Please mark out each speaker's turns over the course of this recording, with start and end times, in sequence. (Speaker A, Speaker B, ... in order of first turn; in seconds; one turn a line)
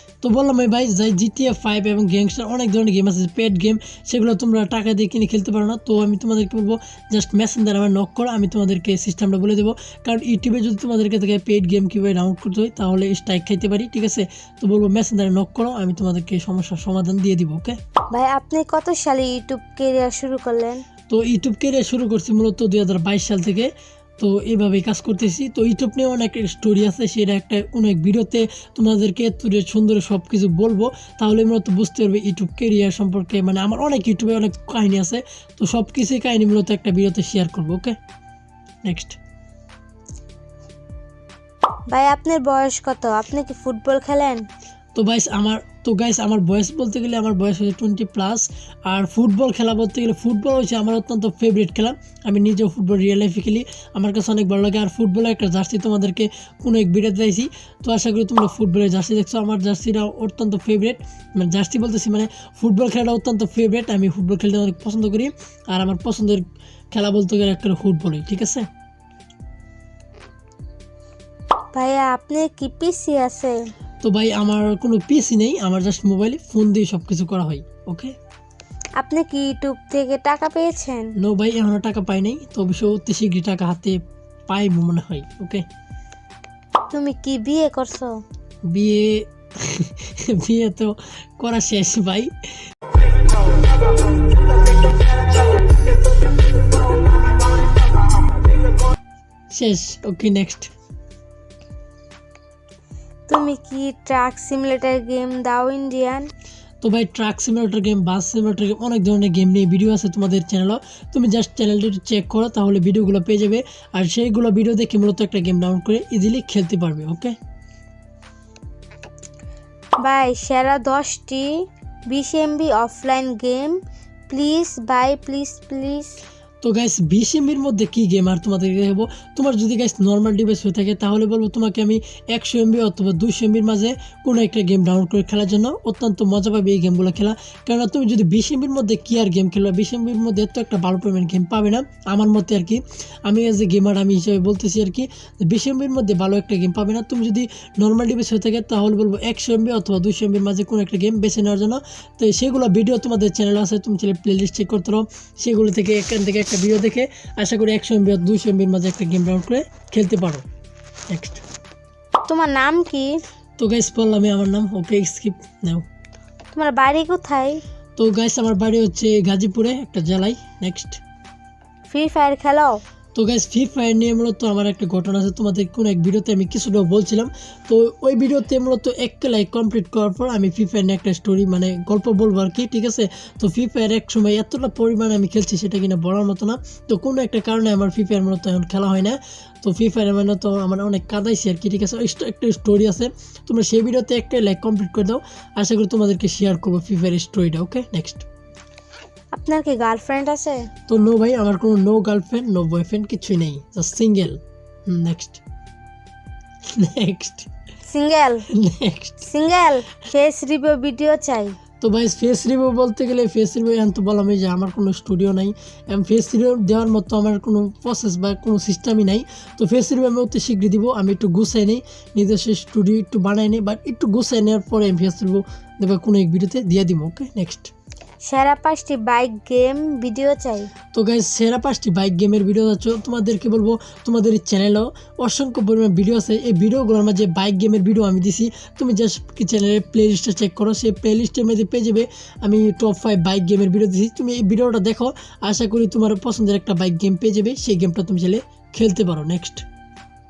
Speaker A: 0.2-17.8
Speaker B: 18.1-20.8
Speaker A: 21.1-38.0
Speaker A: 38.9-39.2
Speaker B: 41.9-44.5
Speaker A: 45.0-68.7
Speaker B: 71.7-73.6
Speaker A: 74.0-78.2
Speaker B: 79.0-81.1
Speaker A: 81.2-85.7
Speaker B: 86.9-88.2
Speaker A: 88.7-92.3
Speaker A: 99.5-100.7
Speaker B: 103.3-106.3
Speaker A: 106.8-117.4
Speaker B: 120.0-126.2
Speaker A: 126.6-160.4
Speaker A: 161.1-161.4
Speaker B: 162.2-163.2
Speaker A: 163.6-165.9
Speaker B: 166.5-167.6
Speaker A: 168.0-171.0
Speaker B: 171.9-172.8
Speaker A: 173.2-198.3
Speaker B: 199.3-200.7
Speaker A: 200.9-205.4
Speaker A: 206.7-207.5
Speaker B: 207.9-208.5
Speaker A: 208.5-209.3
Speaker B: 209.2-211.6
Speaker A: 211.8-227.7
Speaker B: 228.2-230.7
Speaker A: 230.9-249.7